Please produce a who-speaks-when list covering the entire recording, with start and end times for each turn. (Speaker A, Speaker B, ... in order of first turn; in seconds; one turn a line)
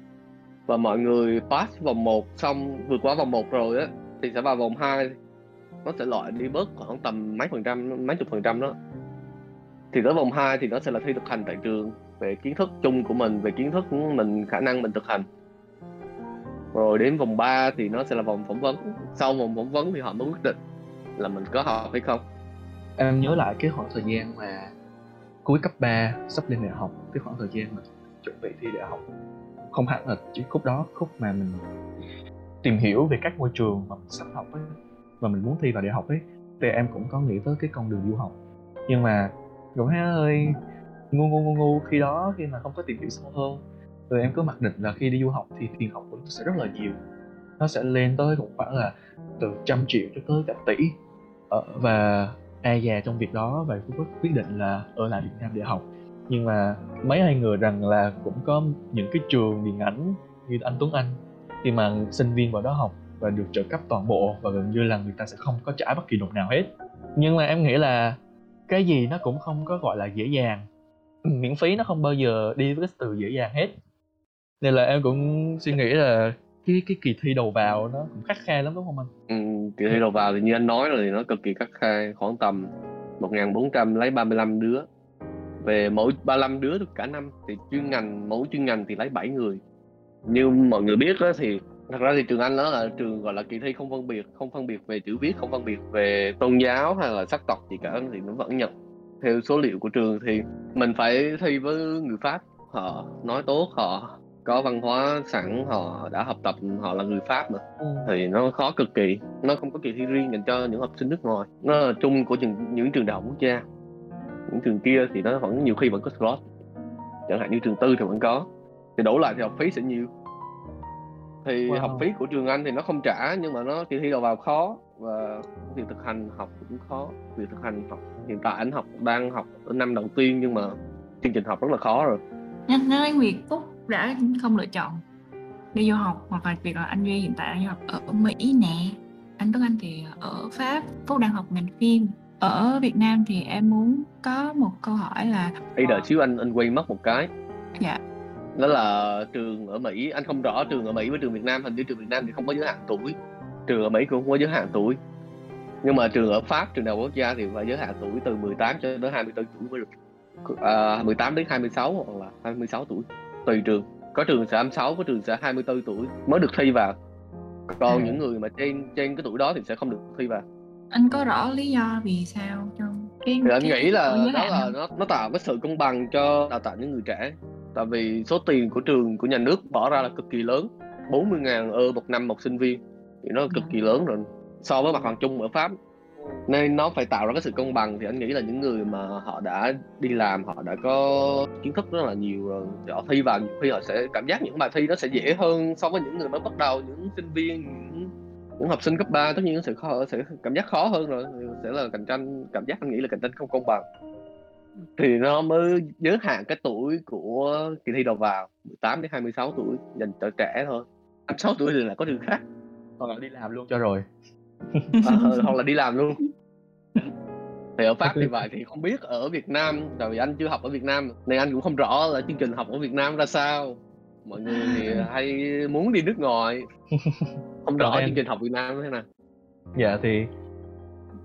Speaker A: 0.7-5.1
Speaker A: 5.8-8.8
Speaker A: 9.9-15.3
Speaker A: 16.7-20.6
Speaker A: 21.2-22.2
Speaker B: 23.0-24.7
Speaker B: 25.4-29.0
Speaker B: 29.7-31.6
Speaker B: 32.6-34.7
Speaker B: 35.2-38.4
Speaker B: 38.9-40.5
Speaker B: 41.1-47.0
Speaker B: 47.6-51.0
Speaker B: 51.5-70.7
Speaker B: 71.3-73.7
Speaker B: 74.6-79.1
Speaker A: 79.3-84.9
Speaker A: 85.6-89.6
Speaker A: 90.3-113.6
Speaker B: 107.8-108.1
Speaker A: 114.5-116.4
Speaker A: 117.3-118.5
Speaker A: 119.0-120.1
Speaker A: 121.4-132.2
Speaker B: 121.7-122.1
Speaker C: 132.7-135.0
Speaker C: 135.7-146.1
Speaker A: 145.8-147.3
Speaker A: 148.6-153.2
Speaker A: 153.7-155.0
Speaker A: 155.8-159.8
Speaker A: 160.5-167.0
Speaker A: 167.7-170.4
Speaker C: 167.9-168.2
Speaker B: 167.9-168.2
Speaker C: 170.9-174.7
Speaker A: 173.4-185.8
Speaker A: 186.5-203.8
Speaker A: 205.0-212.4
Speaker B: 213.0-214.0
Speaker B: 214.7-215.0
Speaker A: 215.0-216.2
Speaker C: 215.1-215.5
Speaker A: 217.8-226.7
Speaker B: 218.0-218.5
Speaker B: 224.5-224.9
Speaker B: 227.0-228.2
Speaker A: 227.7-229.1
Speaker B: 229.8-230.3